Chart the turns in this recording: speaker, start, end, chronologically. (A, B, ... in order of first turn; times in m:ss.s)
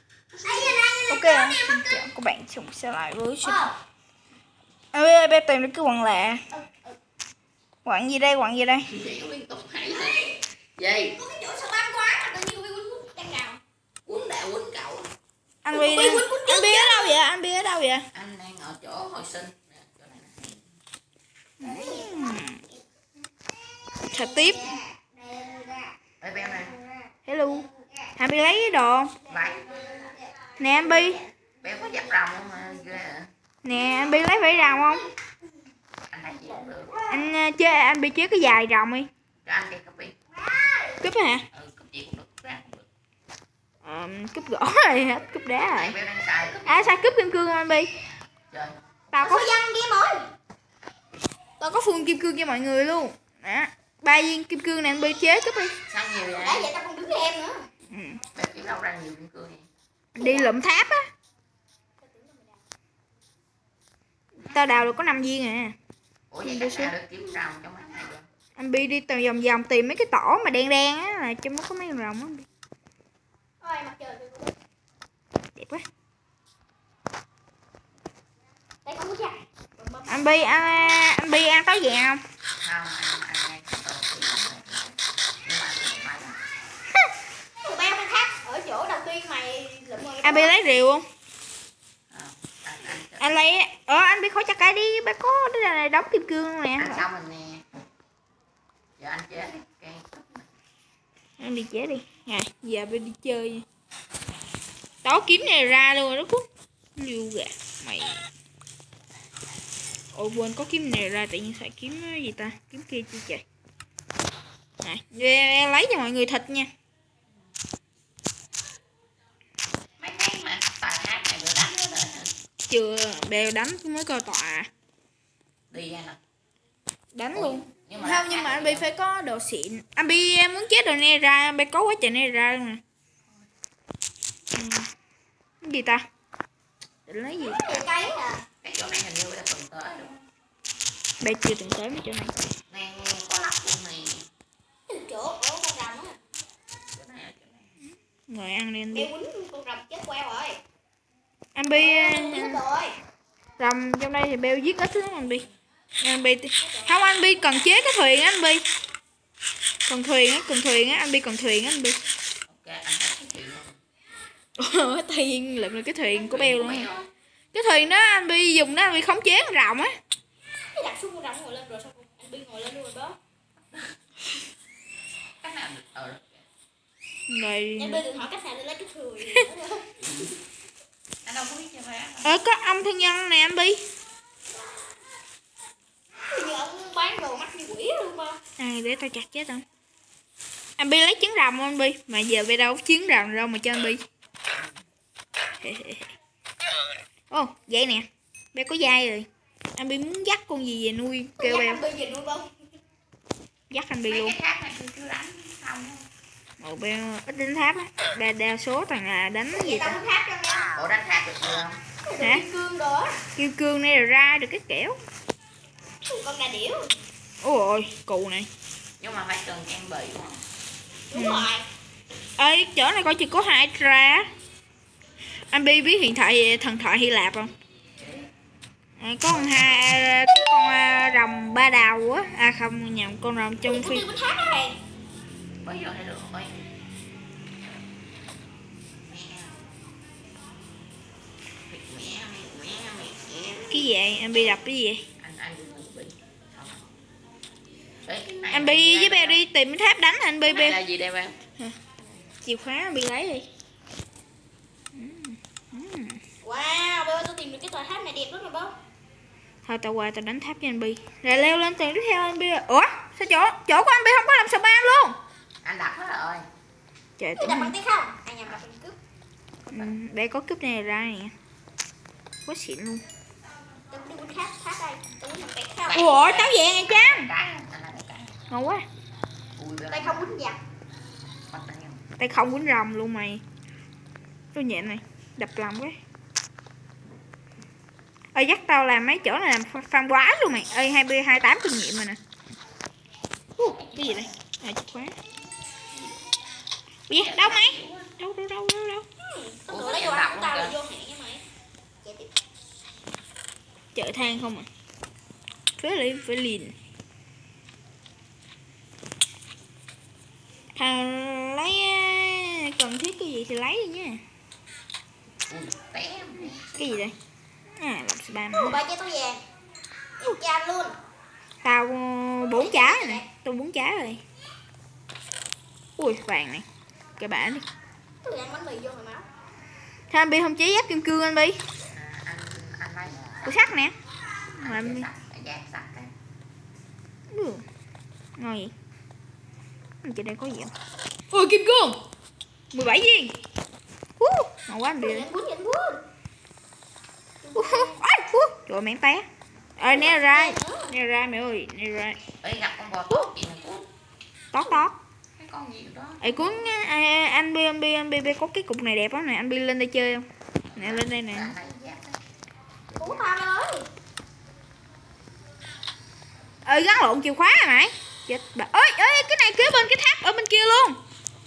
0:00.4-0:02.0 A
0:01.1-0:03.6 B
0:03.4-0:03.7 A
0:04.9-0:06.4 B
0:06.5-0:07.0 A
0:07.8-0:08.9 B
0:08.9-0:11.2 C
0:11.2-0:13.6 A
0:14.1-0:15.1 C
0:15.6-0:18.1 B
0:15.7-0:17.2 A
0:18.1-0:20.7 C
0:21.6-0:22.6 B
0:21.6-0:22.6 A
0:24.0-0:25.9 A
0:24.1-0:24.8 B
0:26.2-0:26.8 C
0:27.3-0:27.7 B
0:28.2-0:29.2 B
0:29.3-0:29.9 C
0:30.6-0:31.2 B
0:30.9-0:31.3 A
0:31.6-0:33.3 C
0:33.6-0:35.1 B
0:33.9-0:35.0 A
0:36.1-0:36.9 C
0:36.8-0:37.2 A
0:37.1-0:39.1 B
0:39.4-0:40.2 C
0:40.5-0:41.0 A
0:41.0-0:41.4 B
0:41.5-0:42.9 C
0:43.8-0:46.0 B
0:45.7-0:47.0 C
0:46.7-0:47.9 B
0:48.5-0:48.8 C
0:49.1-0:49.6 B
0:49.2-0:50.3 A
0:51.6-0:55.8 B
0:55.9-0:56.7 C
0:56.4-0:57.6 A
0:57.9-0:58.2 B
0:58.3-0:59.7 C
1:00.2-1:01.1 B
1:00.2-1:00.6 A
1:02.0-1:02.6 A
1:04.4-1:05.0 C
1:04.5-1:05.8 B
1:06.3-1:08.3 C
1:06.4-1:06.9 B
1:08.6-1:12.5 B
1:13.6-1:14.5 A
1:15.6-1:15.8 B
1:18.8-1:21.0 A
1:20.1-1:22.2 B
1:22.6-1:26.4 C
1:27.6-1:30.6 A
1:30.2-1:31.1 B
1:32.1-1:33.5 C
1:33.2-1:37.1 B
1:36.8-1:37.6 C
1:39.0-1:40.5 C
1:41.4-1:43.6 B
1:45.0-1:48.3 B
1:50.2-1:53.4 B
1:54.8-1:56.7 B
2:00.0-2:02.3 C
2:02.7-2:04.7 B
2:05.7-2:06.2 C
2:07.1-2:12.8 B
2:07.3-2:08.9 C
2:14.5-2:14.9 B
2:15.6-2:16.1 B
2:17.1-2:17.6 B
2:17.4-2:18.4 A
2:18.6-2:20.2 C
2:21.2-2:22.4 B
2:22.7-2:24.3 C
2:24.9-2:26.2 A
2:26.9-2:27.8 C
2:28.3-2:29.1 B
2:28.9-2:30.6 A
2:31.6-2:32.6 B
2:31.6-2:33.0 A
2:33.6-2:35.4 B
2:36.0-2:38.6 B
2:36.6-2:37.4 A
2:39.9-2:42.0 B
2:42.5-2:43.8 C
2:44.6-2:46.9 B
2:46.1-2:47.1 C
2:47.5-2:50.0 B
2:50.8-2:53.2 A
2:53.7-2:54.0 C
2:55.4-2:56.4 C
2:57.3-2:58.1 B
2:57.8-2:59.8 A
3:00.0-3:00.4 C
3:01.2-3:02.4 C
3:02.2-3:03.8 B
3:06.3-3:08.4 A
3:08.6-3:09.6 B
3:10.8-3:14.0 B
3:15.6-3:16.1 B
3:17.3-3:21.8 B
3:21.4-3:22.5 A
3:23.7-3:24.4 B
3:24.1-3:26.1 C
3:26.6-3:30.0 B
3:29.5-3:30.7 A
3:30.7-3:31.8 C
3:32.0-3:33.2 A
3:32.2-3:32.5 B
3:33.4-3:35.0 B
3:36.1-3:36.9 A
3:37.4-3:38.5 B
3:39.0-3:40.4 C
3:41.1-3:41.6 A
3:41.1-3:41.5 B
3:42.4-3:44.3 B
3:45.5-3:47.5 B
3:48.0-3:48.3 C
3:49.0-3:54.1 B
3:49.3-3:49.7 C
3:53.6-3:54.8 A
3:55.6-3:56.7 C
3:59.1-3:59.6 C
4:01.7-4:03.9 C
4:03.7-4:05.0 B
4:05.2-4:06.9 C
4:08.0-4:09.4 C
4:08.5-4:10.8 B
4:10.5-4:11.4 C
4:12.4-4:13.5 B
4:14.9-4:16.2 B
4:16.4-4:18.8 A
4:19.7-4:25.2 B
4:25.6-4:26.5 C
4:27.2-4:27.8 B
4:27.4-4:29.0 A
4:29.7-4:31.3 B
4:32.5-4:33.0 B
4:33.9-4:36.1 A
4:35.8-4:38.4 C
4:35.9-4:37.3 B
4:38.5-4:38.8 B
4:39.6-4:40.3 C
4:39.9-4:40.6 A
4:41.5-4:42.0 C
4:42.2-4:43.4 B
4:44.5-4:46.0 B
4:48.4-4:52.2 B
4:53.6-4:55.2 B
4:57.1-4:59.1 B
4:57.2-4:58.1 C
4:59.2-5:01.4 A
4:59.7-5:00.8 C
5:02.0-5:02.3 A
5:04.0-5:04.7 B
5:05.8-5:06.8 B
5:10.8-5:14.2 B
5:15.5-5:17.1 C
5:16.8-5:17.1 B
5:17.8-5:18.8 B
5:18.5-5:19.4 A
5:20.2-5:21.0 A
5:21.6-5:24.2 B
5:22.5-5:23.2 A
5:26.0-5:26.6 B
5:27.2-5:27.6 B
5:28.2-5:29.2 A
5:30.1-5:31.6 B
5:31.9-5:33.5 C
5:33.4-5:34.0 B
5:34.6-5:36.1 C
5:34.6-5:35.1 B
5:37.3-5:37.6 B
5:38.4-5:38.7 B
5:40.0-5:40.7 B
5:41.3-5:42.0 B
5:42.7-5:43.4 B
5:44.2-5:45.3 B
5:45.0-5:46.0 A
5:47.4-5:48.0 A
5:47.6-5:49.3 B
5:49.8-5:52.2 B
5:49.9-5:50.9 A
5:52.4-5:53.8 C
5:54.5-5:55.0 B
5:55.4-5:56.6 C
5:56.2-6:01.5 B
6:00.7-6:02.2 C
6:02.9-6:03.3 C
6:03.0-6:03.9 A
6:06.6-6:11.0 B